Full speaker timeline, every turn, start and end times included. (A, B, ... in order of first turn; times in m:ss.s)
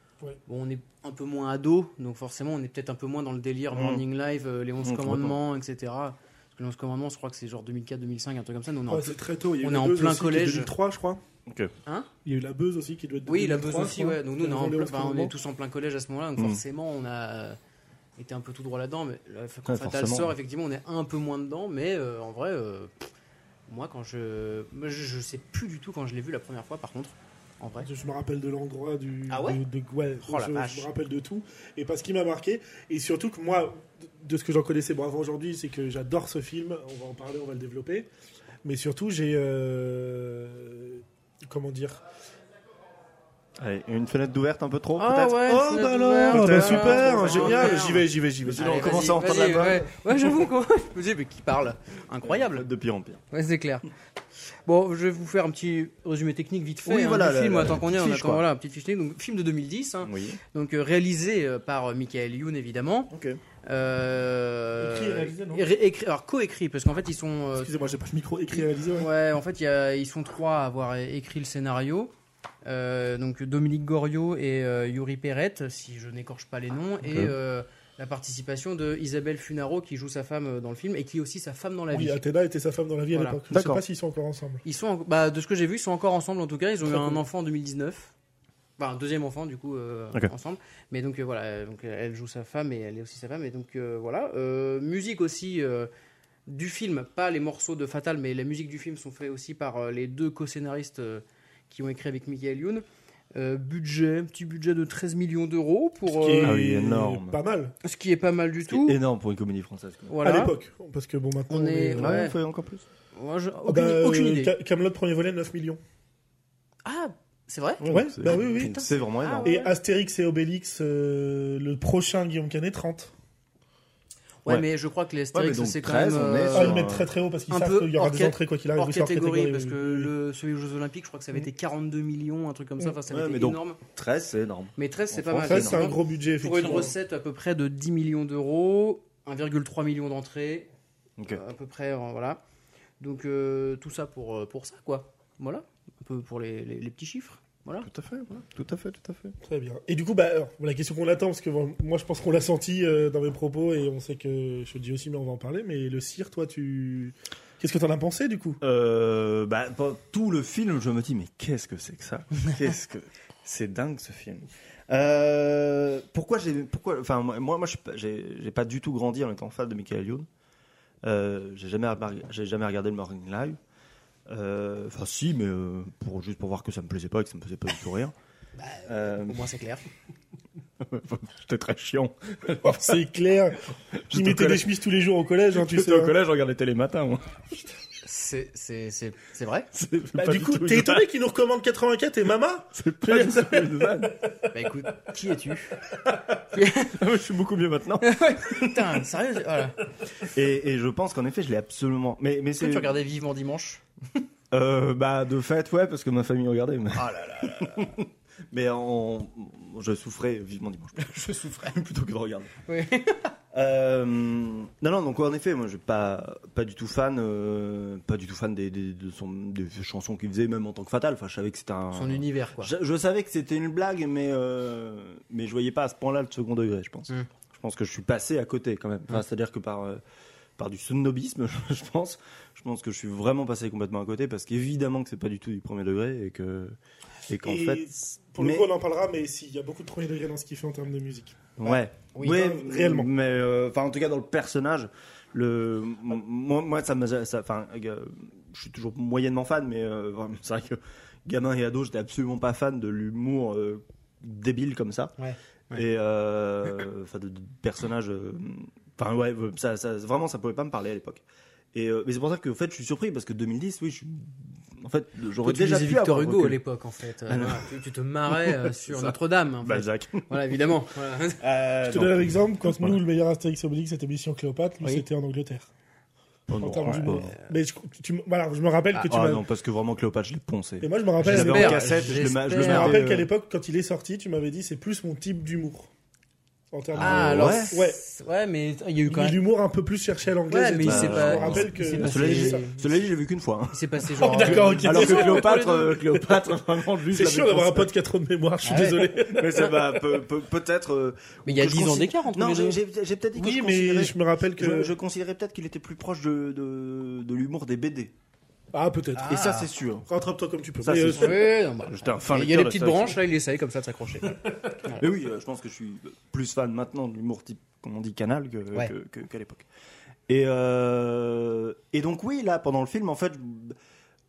0:00.4-0:10.7 A
0:03.7-0:04.0 B
0:04.8-0:05.4 B
0:08.9-0:11.2 C
0:11.4-0:11.7 B
0:12.2-0:15.3 C
0:13.3-0:17.6 A
0:16.4-0:16.6 B
0:18.2-0:23.1 A
0:19.6-0:20.3 B
0:23.7-0:27.9 A
0:27.8-0:38.1 C
0:29.3-0:29.6 A
0:30.2-0:30.9 A
0:38.6-0:42.0 C
0:43.6-0:45.4 B
0:45.0-0:52.6 A
0:45.4-0:49.0 C
0:46.3-0:50.3 B
0:52.2-0:53.2 B
0:53.3-0:53.9 A
0:54.6-1:03.1 A
0:56.8-0:58.4 B
1:00.0-1:00.4 B
1:03.1-1:03.4 B
1:03.6-1:07.7 A
1:04.8-1:05.7 C
1:07.6-1:09.1 C
1:08.5-1:12.1 A
1:12.6-1:22.2 A
1:17.0-1:17.3 B
1:21.9-1:24.6 C
1:23.1-1:23.4 A
1:23.5-1:23.8 B
1:24.6-1:28.1 A
1:26.8-1:27.2 C
1:28.8-1:35.9 A
1:36.5-1:46.6 A
1:46.0-1:47.8 C
1:46.4-1:47.4 B
1:47.8-1:49.0 A
1:48.7-1:50.1 B
1:50.1-1:50.5 A
1:50.2-1:52.2 C
1:51.5-1:52.4 A
1:52.0-1:52.8 B
1:53.1-1:54.5 A
1:53.6-1:55.8 C
1:56.8-1:59.7 A
1:57.8-1:59.5 B
1:57.9-1:58.8 C
1:59.4-2:03.1 C
2:04.4-2:06.8 A
2:05.3-2:07.1 B
2:06.5-2:10.1 C
2:07.5-2:13.8 A
2:13.1-2:15.9 B
2:14.8-2:20.7 A
2:15.4-2:16.9 C
2:21.3-2:22.4 A
2:23.0-2:28.4 A
2:27.8-2:29.4 B
2:29.4-2:38.6 C
2:38.6-2:50.3 B
2:51.0-2:53.6 B
2:54.3-2:58.1 B
2:58.6-2:59.8 A
2:58.8-2:59.4 B
3:00.8-3:03.0 B
3:02.6-3:03.6 C
3:04.1-3:04.6 B
3:04.1-3:06.1 C
3:05.5-3:07.3 B
3:08.0-3:09.7 A
3:09.7-3:11.0 B
3:10.1-3:14.3 C
3:12.7-3:14.2 B
3:14.5-3:15.8 A
3:16.5-3:17.0 A
3:17.0-3:19.0 B
3:18.0-3:19.8 A
3:20.2-3:23.0 B
3:22.6-3:23.8 A
3:24.5-3:32.5 B
3:27.0-3:27.9 A
3:31.0-3:31.8 A
3:32.6-3:33.3 A
3:33.5-3:50.0 B
3:41.9-3:42.7 A
3:50.6-3:56.8 B
3:57.3-3:57.8 B
3:57.4-4:03.1 C
3:58.4-3:58.7 B
4:01.6-4:15.1 B
4:02.1-4:02.4 A
4:15.2-4:15.8 A
4:15.7-4:21.2 B
4:21.7-4:26.6 B
4:25.4-4:31.4 A
4:27.3-4:27.7 B
4:28.3-4:30.7 B
4:31.4-4:33.0 B
4:31.8-4:35.7 C
4:36.5-4:37.3 B
4:36.6-4:39.4 C
4:37.1-4:37.5 A
4:39.0-4:43.3 B
4:40.8-4:45.9 C
4:41.2-4:43.0 A
4:46.7-4:48.0 C
4:46.9-4:47.7 B
4:47.0-4:49.4 A
4:49.1-4:52.6 C
4:50.5-4:52.8 A
4:50.8-4:57.9 B
4:53.7-4:55.8 A
4:54.2-4:56.3 C
4:57.0-5:00.1 C
4:58.6-4:59.1 A
4:59.3-5:08.1 B
5:01.4-5:02.8 A
5:03.4-5:04.9 C
5:08.7-5:09.4 C
5:09.1-5:09.7 A
5:09.3-5:10.1 B
5:10.1-5:11.5 C
5:10.8-5:13.2 B
5:11.1-5:15.0 A
5:14.8-5:19.6 B
5:20.3-5:23.8 B